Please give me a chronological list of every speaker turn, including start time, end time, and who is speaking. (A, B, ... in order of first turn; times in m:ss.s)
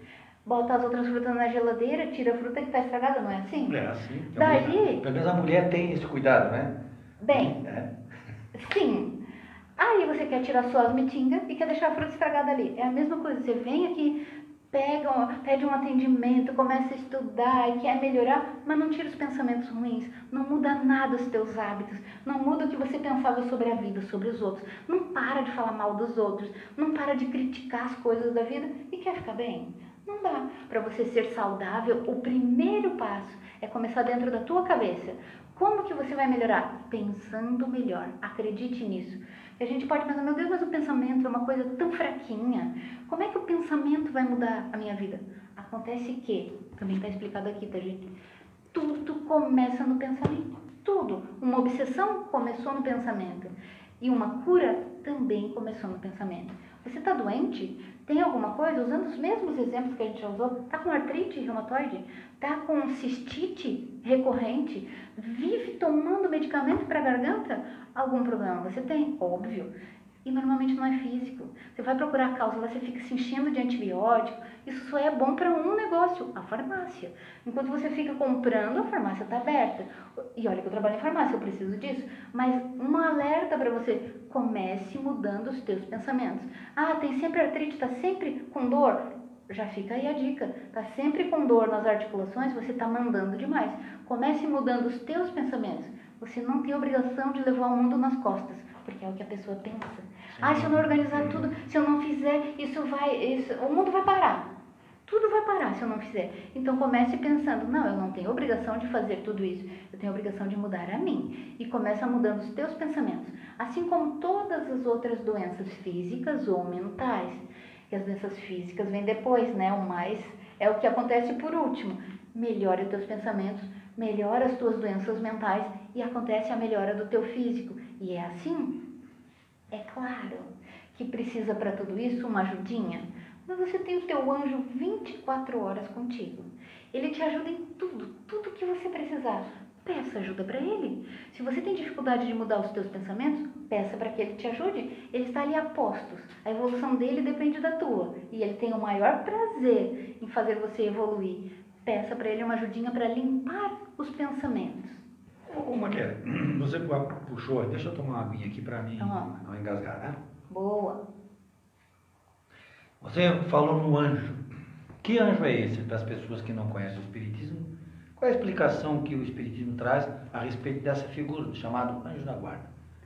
0:00.4-0:03.8 A
0:03.6-0:06.7 B
0:04.3-0:05.0 A
0:07.2-0:07.6 A
0:07.3-0:07.9 B
0:08.5-0:09.2 A
0:09.8-0:14.2 A
0:14.7-0:48.1 A
0:48.7-1:09.7 A
1:10.2-1:44.5 A
1:40.3-1:41.4 B
1:45.1-2:08.8 A
2:09.7-2:35.0 A
2:35.5-2:40.2 B
2:39.0-2:39.4 A
2:40.5-2:41.0 A
2:43.0-2:44.4 B
2:45.0-2:52.7 B